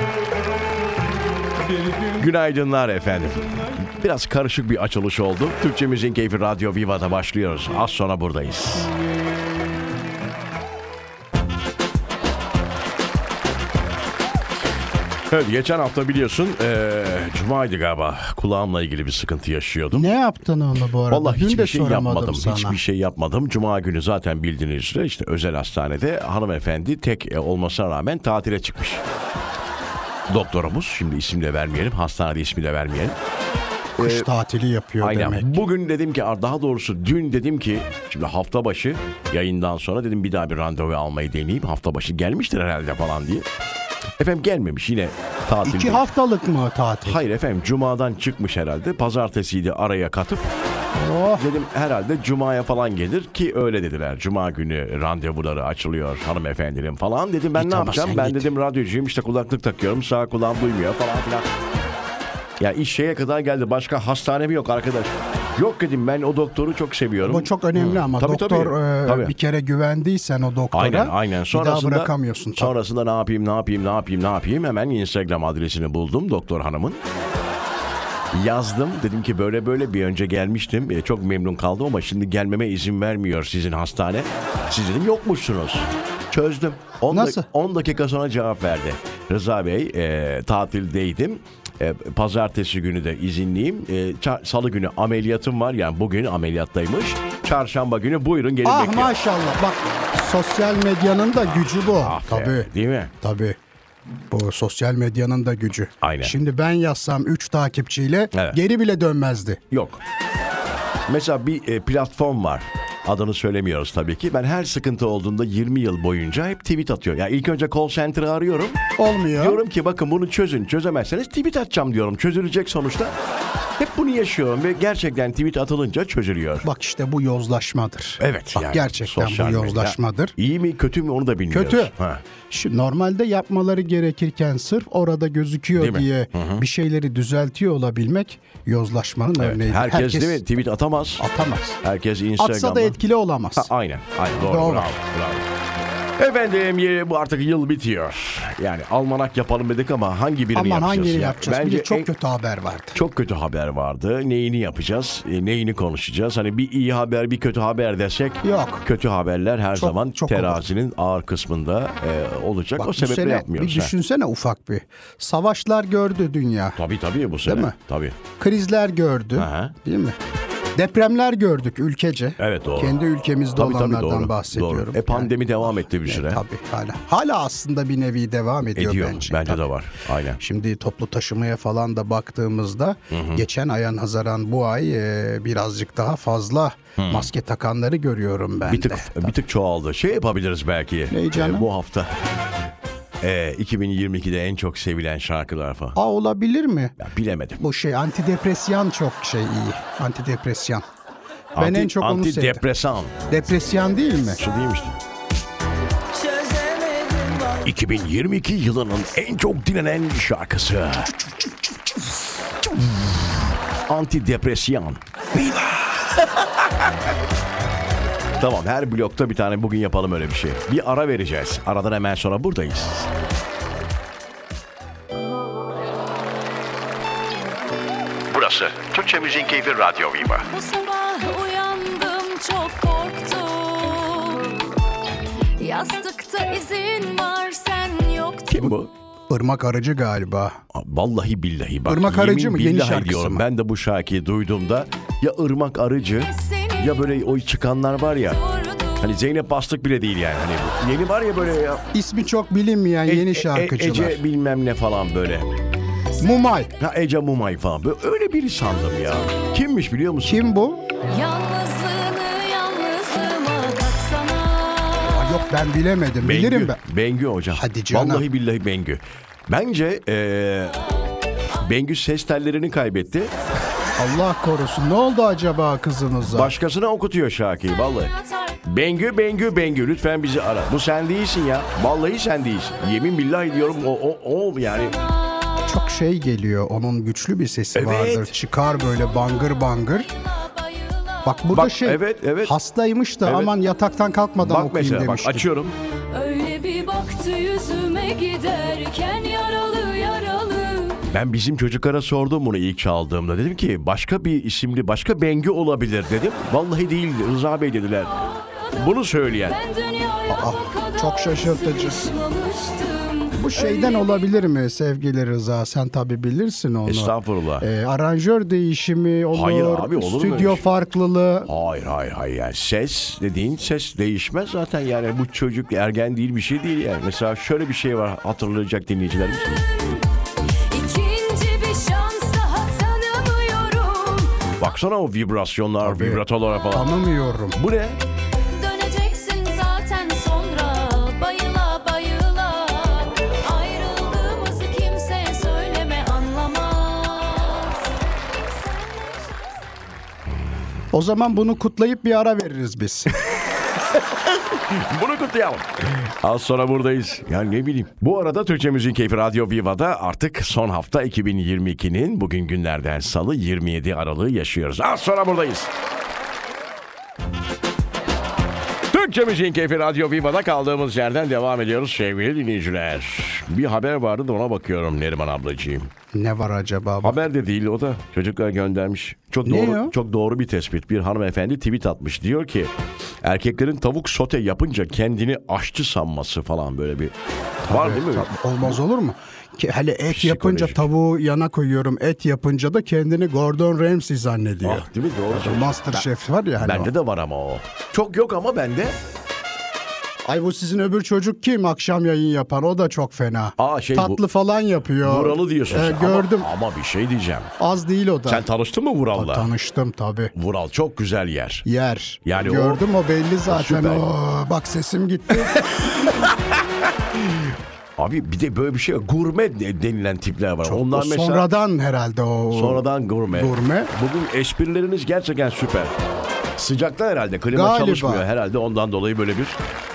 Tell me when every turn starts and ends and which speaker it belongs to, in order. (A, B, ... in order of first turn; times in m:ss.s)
0:01.9-0:08.9 A
0:15.3-0:20.1 A
0:19.9-0:22.8 B
0:21.1-0:29.0 A
0:30.3-0:33.2 A
0:34.0-0:34.3 A
0:34.0-0:35.5 B
0:35.0-0:43.5 A
0:44.2-0:46.0 A
0:45.6-0:47.2 B
0:47.0-0:50.5 A
0:51.0-0:51.5 B
0:51.4-1:01.5 A
0:57.6-0:58.5 B
1:02.6-1:09.3 A
1:07.2-1:12.7 B
1:10.7-1:17.0 A
1:18.3-1:39.2 A
1:27.1-1:27.5 B
1:38.6-1:42.7 B
1:41.5-1:43.1 A
1:43.2-1:43.6 B
1:44.3-1:49.6 B
1:46.0-1:46.4 A
1:48.3-1:48.6 A
1:49.7-1:50.0 A
1:51.1-1:58.8 A
1:59.0-1:59.6 B
1:59.3-2:03.2 A
2:03.8-2:06.7 A
2:06.6-2:10.4 B
2:08.2-2:12.2 A
2:11.5-2:11.9 B
2:12.5-2:20.4 B
2:15.8-2:16.6 A
2:19.4-2:21.2 A
2:21.2-2:21.8 B
2:21.8-2:23.0 A
2:22.4-2:23.7 B
2:23.6-2:25.5 A
2:24.4-2:25.0 B
2:26.2-2:32.1 A
2:30.5-2:33.0 B
2:32.9-2:43.9 A
2:38.4-2:38.8 B
2:39.8-2:40.6 B
2:42.8-2:46.8 B
2:46.8-2:48.2 A
2:47.5-2:47.8 B
2:48.4-2:50.2 B
2:49.4-2:49.8 A
2:50.8-2:55.3 B
2:52.4-2:53.0 A
2:53.6-2:56.4 A
2:56.0-2:59.6 B
2:58.8-3:00.4 A
3:00.4-3:09.3 B
3:03.1-3:03.4 A
3:07.0-3:07.3 A
3:08.6-3:12.2 A
3:11.1-3:11.7 B
3:13.2-3:16.0 A
3:16.0-3:17.0 B
3:17.0-3:17.6 A
3:17.6-3:20.8 B
3:21.6-3:23.2 A
3:21.6-3:22.6 B
3:23.3-3:24.4 B
3:24.4-3:25.0 A
3:26.3-3:27.5 C
3:27.6-3:31.2 A
3:32.6-3:36.9 A
3:38.4-3:43.1 A
3:48.3-3:50.5 A
3:50.5-3:54.7 C
3:55.6-3:58.7 C
3:58.5-3:58.9 A
3:59.3-4:00.6 B
4:00.7-4:08.4 A
4:01.9-4:03.4 B
4:06.3-4:06.9 C
4:08.4-4:09.1 C
4:09.0-4:11.8 A
4:11.9-4:14.2 B
4:13.1-4:15.6 A
4:16.2-4:16.7 B
4:16.8-4:20.4 A
4:20.2-4:20.8 B
4:21.1-4:25.3 C
4:25.0-4:26.8 B
4:26.2-4:30.8 A
4:27.5-4:28.2 B
4:31.6-4:33.3 A
4:34.0-4:36.5 B
4:36.3-4:38.1 A
4:38.0-4:38.6 C
4:38.6-4:45.0 A
4:45.7-4:50.1 B
4:47.7-4:48.4 A
4:50.2-4:51.3 C
4:51.2-4:55.5 B
4:51.5-4:52.6 A
4:53.2-4:53.5 A
4:54.4-4:55.8 A
4:56.1-5:01.1 C
5:01.1-5:08.2 A
5:08.8-5:09.6 A
5:09.4-5:14.1 C
5:10.3-5:12.1 B
5:13.4-5:21.5 B
5:16.9-5:17.7 A
5:19.3-5:20.6 A
5:21.5-5:29.8 A
5:29.6-5:30.0 C
5:30.7-5:34.5 C
5:34.6-5:37.0 A
5:35.8-5:37.6 B
5:37.5-5:38.0 A
5:38.5-5:47.9 C
5:48.7-5:49.3 C
5:50.9-5:53.2 B
5:53.3-6:05.7 A
6:08.9-6:15.9 A
6:16.1-6:17.2 B
6:17.0-6:27.1 A
6:19.4-6:19.9 B
6:27.6-6:28.8 A
6:27.7-6:36.9 B
6:30.1-6:30.9 A
6:34.6-6:36.1 A
6:36.6-6:39.0 A
6:40.3-6:46.5 B
6:43.6-6:44.2 A
6:45.0-6:47.5 A
6:47.6-6:48.4 B
6:48.3-6:49.5 A
6:49.2-6:50.3 B
6:50.4-6:51.6 A
6:51.6-6:56.1 B
6:52.2-6:52.8 A
6:53.5-6:54.1 A
6:55.7-7:01.5 A
7:00.6-7:03.9 B
7:02.5-7:05.9 A
7:06.6-7:09.6 A
7:07.5-7:08.3 B